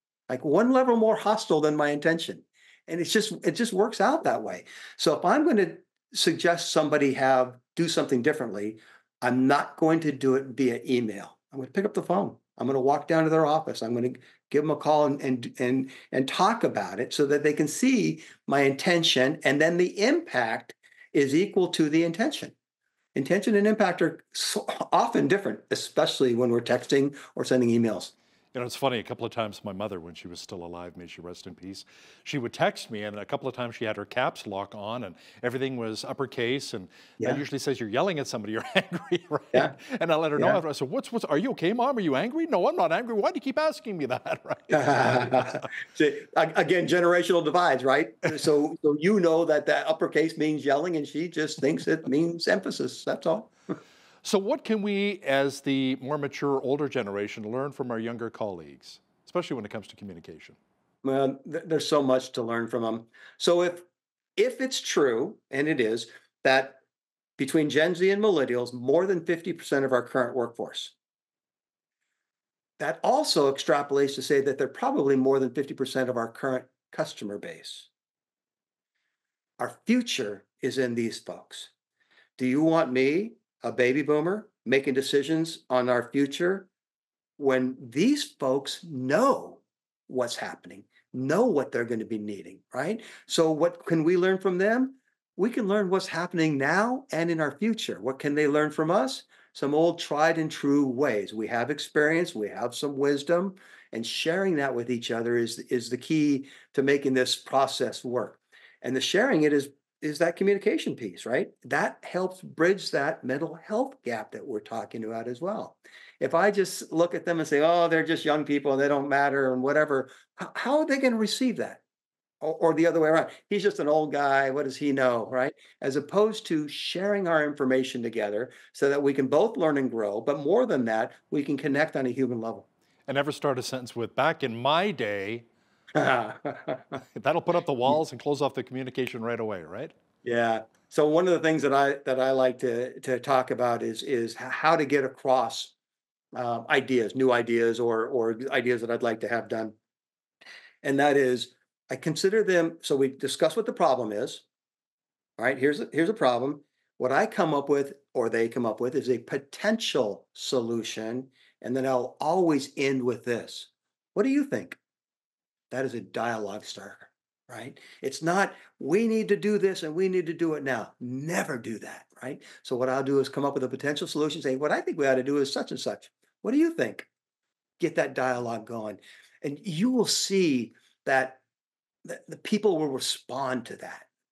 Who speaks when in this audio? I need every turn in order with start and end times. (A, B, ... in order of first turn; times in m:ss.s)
0:00.3-0:22.5 A
0:23.2-0:28.1 A
0:28.5-0:45.6 B
0:44.7-0:53.5 A
0:54.2-1:00.6 B
1:01.0-1:03.8 A
1:04.4-1:06.8 A
1:07.4-1:10.9 A
1:12.8-1:17.9 A
1:19.6-1:21.7 A
1:22.4-1:26.7 A
1:27.4-2:01.8 A
2:02.4-2:12.7 A
2:13.1-2:15.5 B
2:16.0-2:17.0 A
2:17.2-2:19.9 B
2:20.2-2:25.7 A
2:26.3-2:29.8 A
2:30.8-2:34.4 A
2:35.4-2:44.8 A
2:45.7-2:57.1 A
2:57.8-3:01.4 A
3:02.0-3:04.1 A